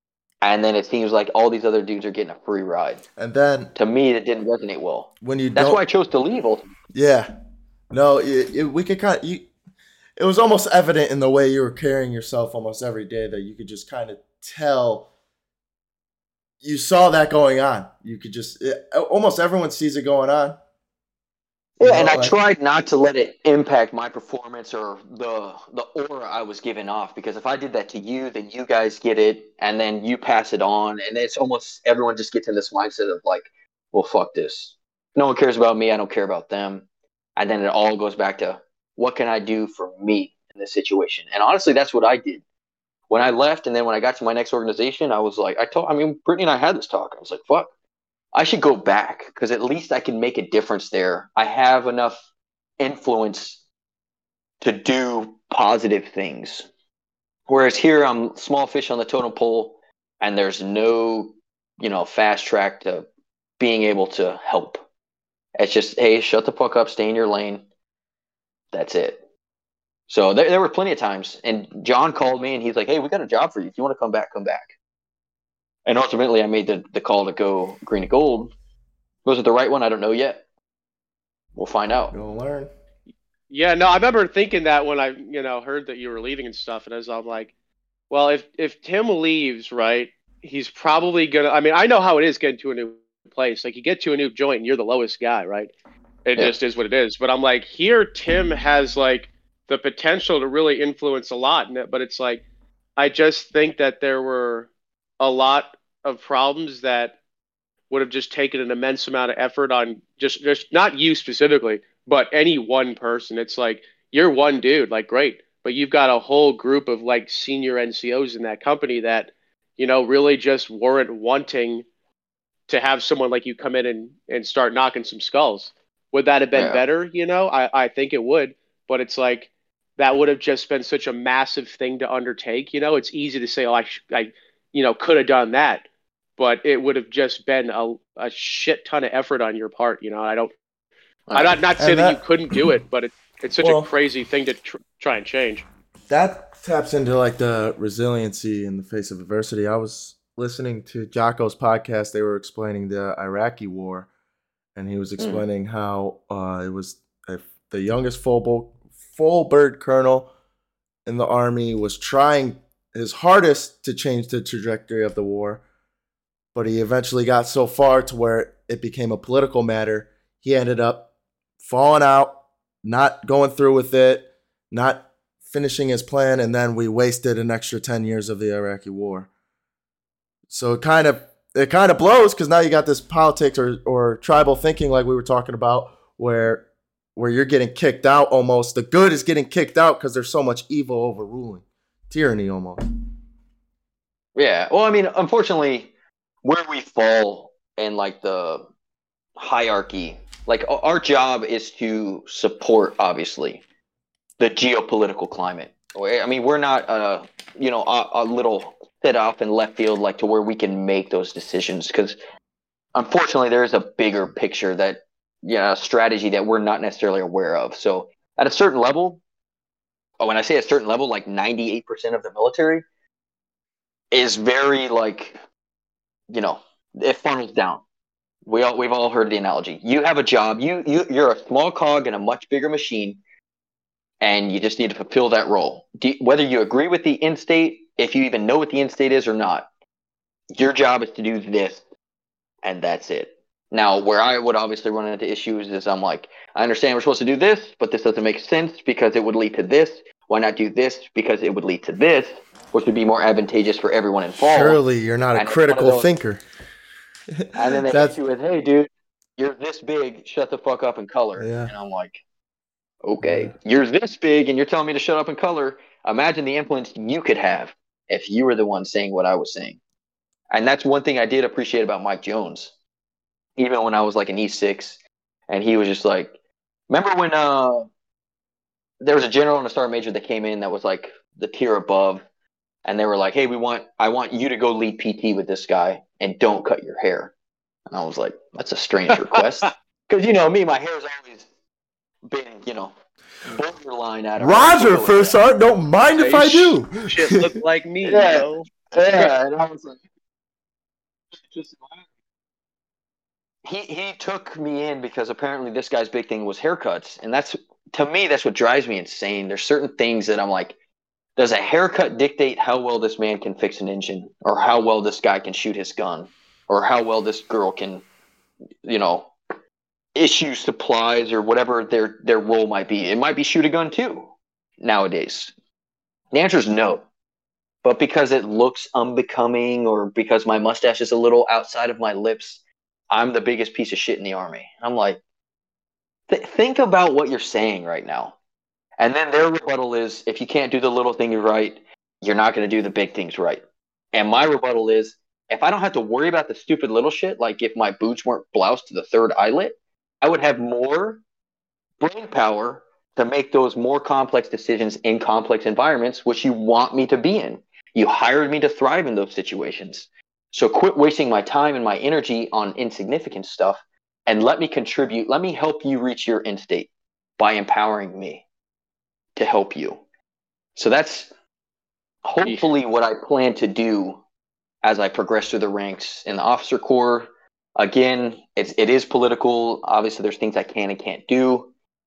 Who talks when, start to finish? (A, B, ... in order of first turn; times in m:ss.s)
0:00.4-0:03.0 A
0:03.2-0:03.7 B
0:03.7-0:06.8 A
0:05.2-0:05.8 B
0:06.9-0:07.3 B
0:07.9-0:09.5 B
0:10.2-0:15.1 B
0:16.6-0:20.6 B
0:21.8-0:22.4 B
0:21.8-0:42.4 A
0:43.1-0:47.7 A
0:48.3-0:52.2 A
0:52.8-0:53.6 A
0:54.6-0:56.7 A
0:57.5-1:03.1 A
1:03.6-1:04.8 A
1:05.6-1:07.6 A
1:08.7-1:09.2 A
1:10.1-1:14.7 A
1:15.8-1:18.5 A
1:19.2-1:20.4 A
1:21.6-1:22.1 A
1:22.1-1:22.7 B
1:23.5-1:27.5 C
1:28.1-1:35.7 C
1:36.2-1:42.4 C
1:43.0-1:47.2 C
1:47.9-2:01.8 C
2:02.7-2:15.9 C
2:06.5-2:06.8 A
2:16.4-2:20.5 C
2:21.3-2:21.6 A
2:21.3-2:25.6 C
2:21.8-2:22.8 B
2:23.6-2:23.9 B
2:26.1-2:34.1 B
2:34.7-2:40.3 B
2:35.2-2:35.4 A
2:41.0-2:45.6 B
2:46.5-2:51.1 B
2:51.6-2:59.3 B
3:00.5-3:06.6 B
3:07.2-3:12.8 B
3:14.3-3:15.9 A
3:16.4-3:18.6 A
3:19.4-3:23.6 A
3:24.4-3:32.2 A
3:32.9-3:39.2 A
3:40.2-3:42.8 A
3:44.1-3:45.4 A
3:46.3-3:47.8 A
3:48.4-3:53.2 A
3:54.2-3:59.7 A
4:00.5-4:01.8 A
4:02.6-4:14.8 A
4:14.4-4:16.4 B
4:15.3-4:16.1 A
4:17.4-4:18.1 B
4:17.6-4:22.2 A
4:21.4-4:21.7 B
4:23.0-4:29.8 A
4:23.2-4:23.5 B
4:30.5-4:32.7 A
4:33.6-4:36.3 A
4:36.9-4:37.9 A
4:39.0-4:42.2 A
4:42.8-4:47.3 A
4:47.9-4:51.5 A
4:49.3-4:49.7 C
4:52.2-4:52.9 A
4:53.4-4:55.4 A
4:54.4-4:57.6 B
4:56.2-4:59.3 C
4:58.0-5:00.0 A
5:01.4-5:02.0 A
5:03.6-5:10.8 A
5:11.4-5:18.0 A
5:18.8-5:19.3 A
5:20.1-5:25.5 A
5:26.3-5:27.0 A
5:27.8-5:35.2 A
5:36.3-5:38.4 A
5:39.0-5:43.6 A
5:44.1-5:51.2 A
5:52.0-6:08.4 A
6:09.4-6:10.0 A
6:10.8-6:11.3 A
6:12.2-6:14.2 A
6:12.4-6:12.7 C
6:14.8-6:21.7 A